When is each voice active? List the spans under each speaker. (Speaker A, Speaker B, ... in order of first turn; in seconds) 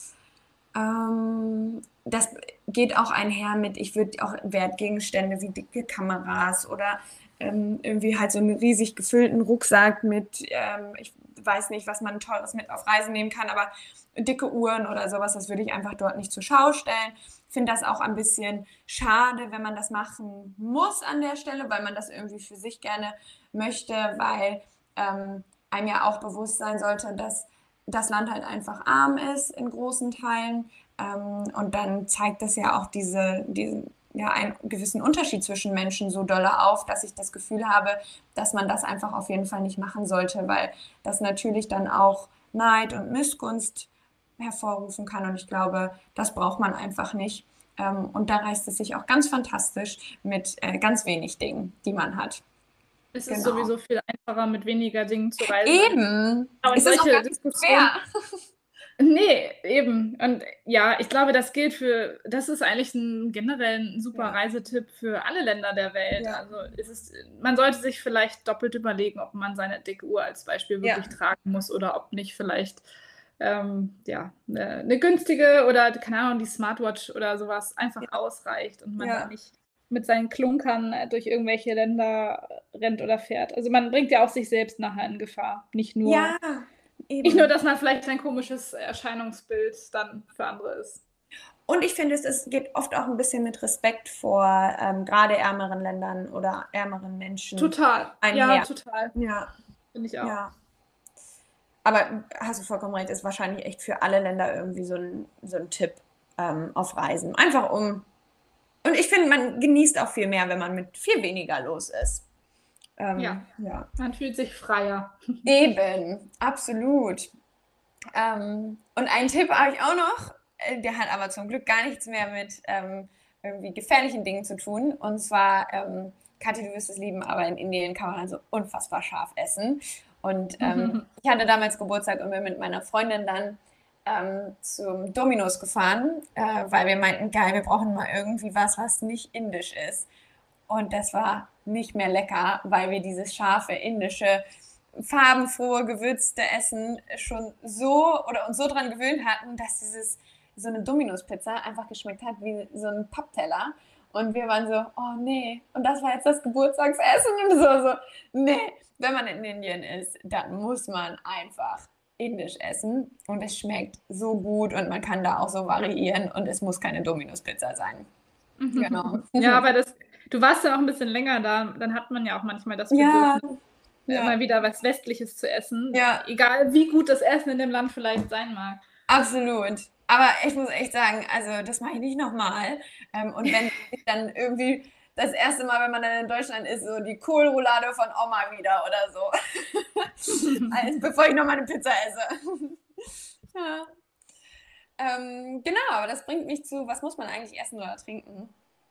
Speaker A: 0.7-52.4, 53.3-53.7, 55.4-58.4, 66.2-66.4, 70.8-71.1, 79.0-79.3, 86.0-87.5, 91.7-99.5, 100.2-100.5, 101.8-108.1, 108.8-112.2, 113.0-113.9, 115.4-117.3, 118.1-140.1, 140.7-144.4, 145.0-168.1, 168.7-169.6, 172.9-174.3, 175.9-176.2, 179.1-193.9, 195.0-198.5
Speaker B: 53.1-56.0, 56.6-57.9, 59.0-72.8, 73.4-86.3, 87.2-91.0, 97.5-99.1, 99.9-100.4, 113.2-115.5, 130.6-131.1, 168.6-173.4, 174.1-178.8, 190.3-190.7